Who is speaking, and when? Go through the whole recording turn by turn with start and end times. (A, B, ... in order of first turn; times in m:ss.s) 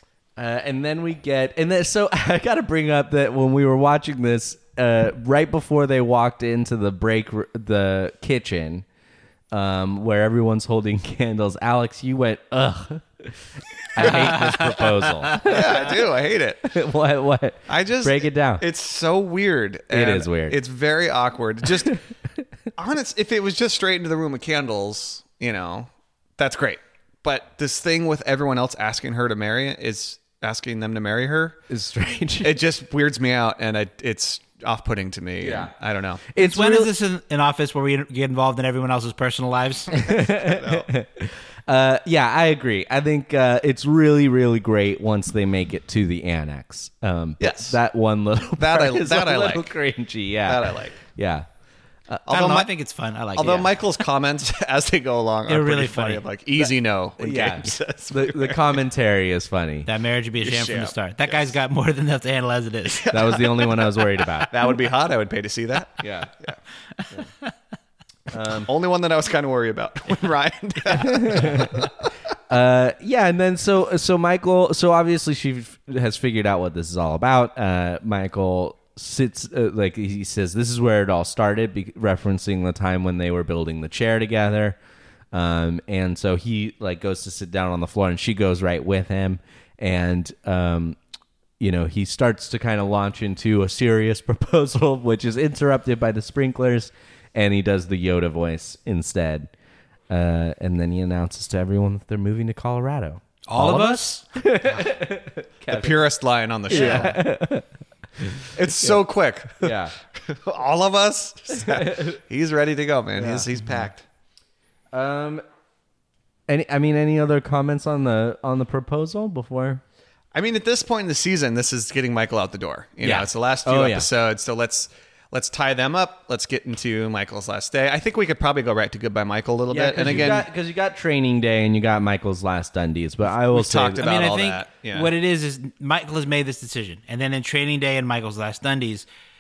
0:00.4-0:08.8 A
0:09.5-0:16.0 A
0:14.3-0:14.6 B
0:15.4-0:16.7 C
0:16.6-0:18.6 A
0:17.7-0:22.0 C
0:19.9-0:20.6 A
0:22.8-0:31.6 C
0:31.7-0:32.6 A
0:32.4-0:36.3 C
0:35.4-0:35.7 A
0:36.3-0:36.9 A
0:36.4-0:40.0 B
0:39.9-0:51.5 A
0:40.1-0:40.9 C
0:47.4-0:47.8 C
0:48.6-0:49.7 C
0:50.5-0:51.0 C
0:52.3-0:52.7 C
0:52.3-0:53.7 B
0:53.3-0:58.8 C
0:55.5-0:56.2 B
0:57.2-0:59.9 A
0:59.9-1:03.1 B
1:00.4-1:01.5 C
1:03.0-1:06.6 C
1:03.1-1:04.5 A
1:06.0-1:06.3 A
1:08.3-1:08.7 A
1:08.7-1:12.0 C
1:10.9-1:11.9 A
1:12.5-1:24.8 A
1:25.3-1:31.0 A
1:31.6-1:39.5 A
1:40.1-1:46.1 A
1:43.5-1:44.8 B
1:45.7-1:47.2 C
1:46.7-1:47.7 A
1:46.7-1:47.1 B
1:48.2-1:49.0 A
1:48.5-1:54.0 C
1:49.6-1:49.9 A
1:51.6-1:52.2 A
1:53.2-1:53.5 A
1:54.9-1:55.4 A
1:56.5-1:59.8 A
2:00.3-2:10.5 C
2:03.0-2:04.1 A
2:09.7-2:14.1 A
2:13.5-2:15.1 C
2:14.0-2:19.1 B